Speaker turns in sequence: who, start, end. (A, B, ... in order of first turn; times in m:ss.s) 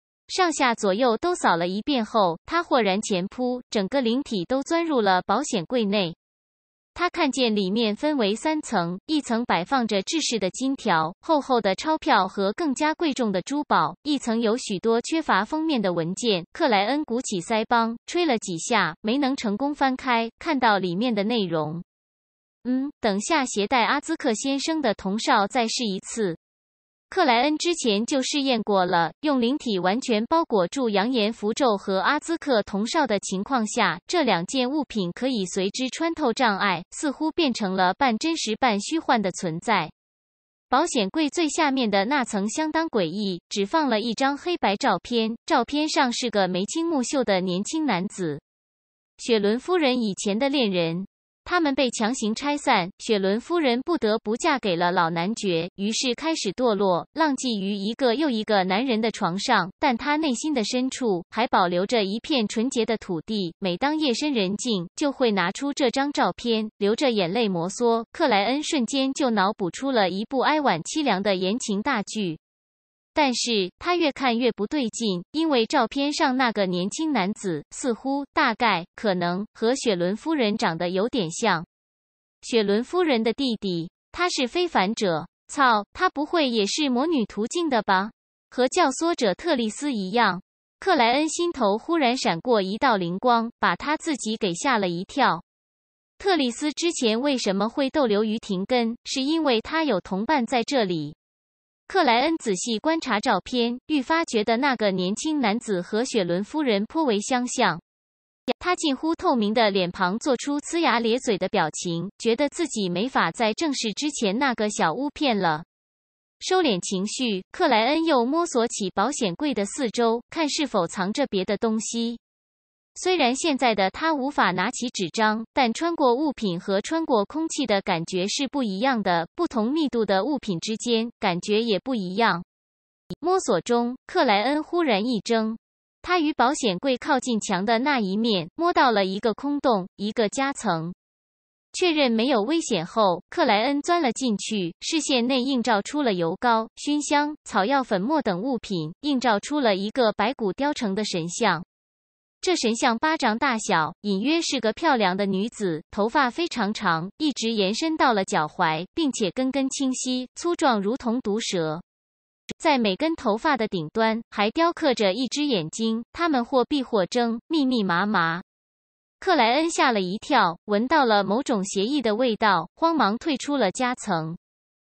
0:00.3-0:06.2 A
0:06.9-0:21.8 A
0:22.6-0:26.4 A
0:27.1-0:39.9 A
0:40.7-0:48.4 A
0:49.2-1:12.4 A
1:13.1-1:21.7 A
1:22.4-1:35.4 A
1:36.2-1:41.2 A
1:41.9-1:47.8 A
1:48.6-1:55.7 A
1:56.4-2:02.2 A
2:03.0-2:12.4 A
2:13.2-2:21.0 A
2:21.7-2:31.6 A
2:32.4-2:41.8 A
2:42.5-2:48.4 A
2:49.2-2:54.4 A